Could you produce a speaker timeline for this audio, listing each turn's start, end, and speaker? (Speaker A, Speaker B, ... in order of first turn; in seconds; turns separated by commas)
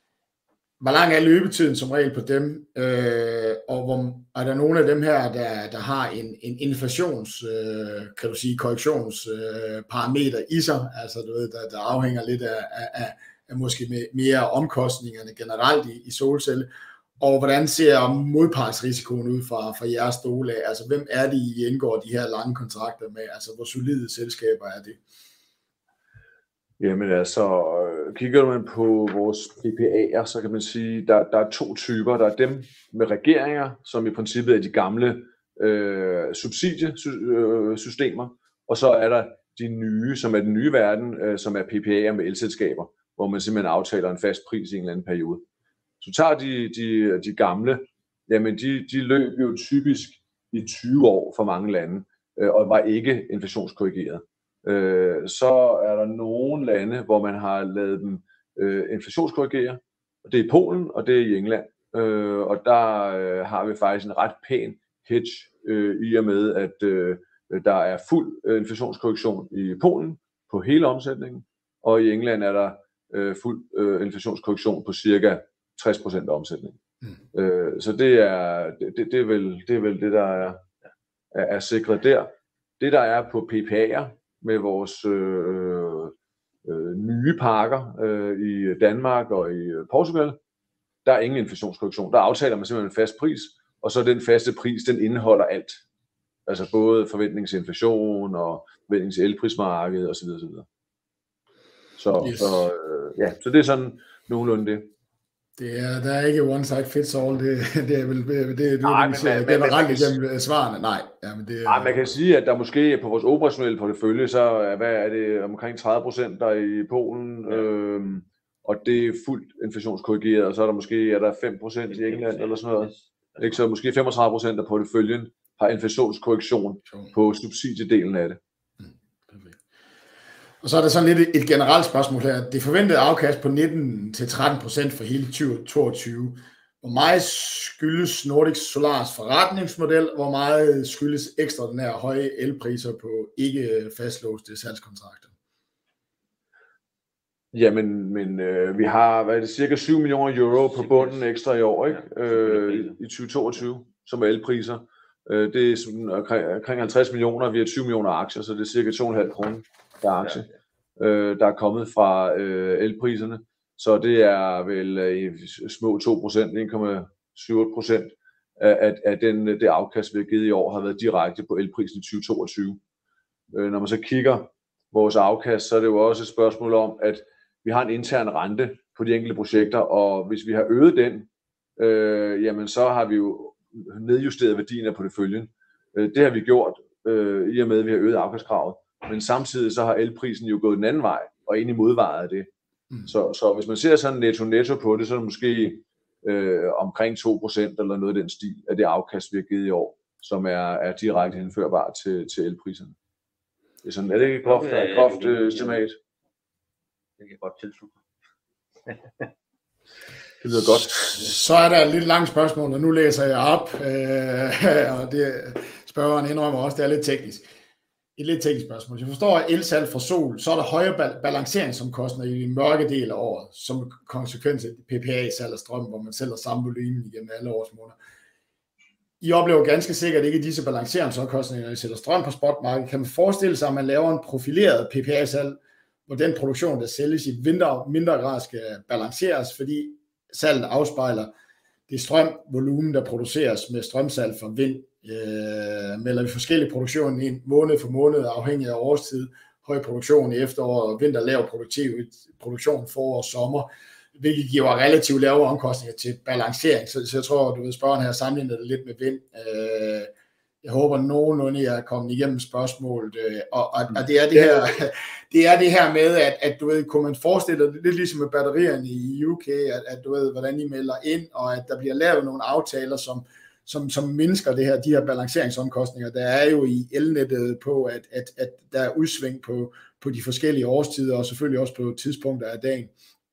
Speaker A: 0.8-16.7, Speaker A: 17.2-25.0, Speaker B: 26.8-45.4, Speaker B: 46.0-76.8, Speaker B: 77.3-80.6, Speaker B: 81.3-90.4, Speaker B: 91.0-95.8, Speaker B: 96.5-100.7, Speaker B: 102.0-104.9, Speaker A: 102.2-102.7, Speaker A: 105.6-112.0, Speaker B: 108.8-110.2, Speaker B: 111.7-128.4, Speaker C: 122.0-123.5, Speaker A: 129.3-129.6, Speaker A: 130.6-145.3, Speaker B: 147.5-172.8, Speaker C: 150.8-151.2, Speaker C: 152.5-152.9, Speaker B: 173.5-192.5, Speaker B: 193.1-203.0, Speaker B: 203.8-206.0, Speaker C: 204.4-205.8, Speaker C: 207.2-208.0, Speaker C: 208.9-209.3, Speaker B: 210.4-211.2, Speaker A: 210.9-217.4, Speaker A: 218.2-228.0, Speaker A: 229.2-241.3, Speaker A: 241.9-260.1, Speaker A: 260.6-282.9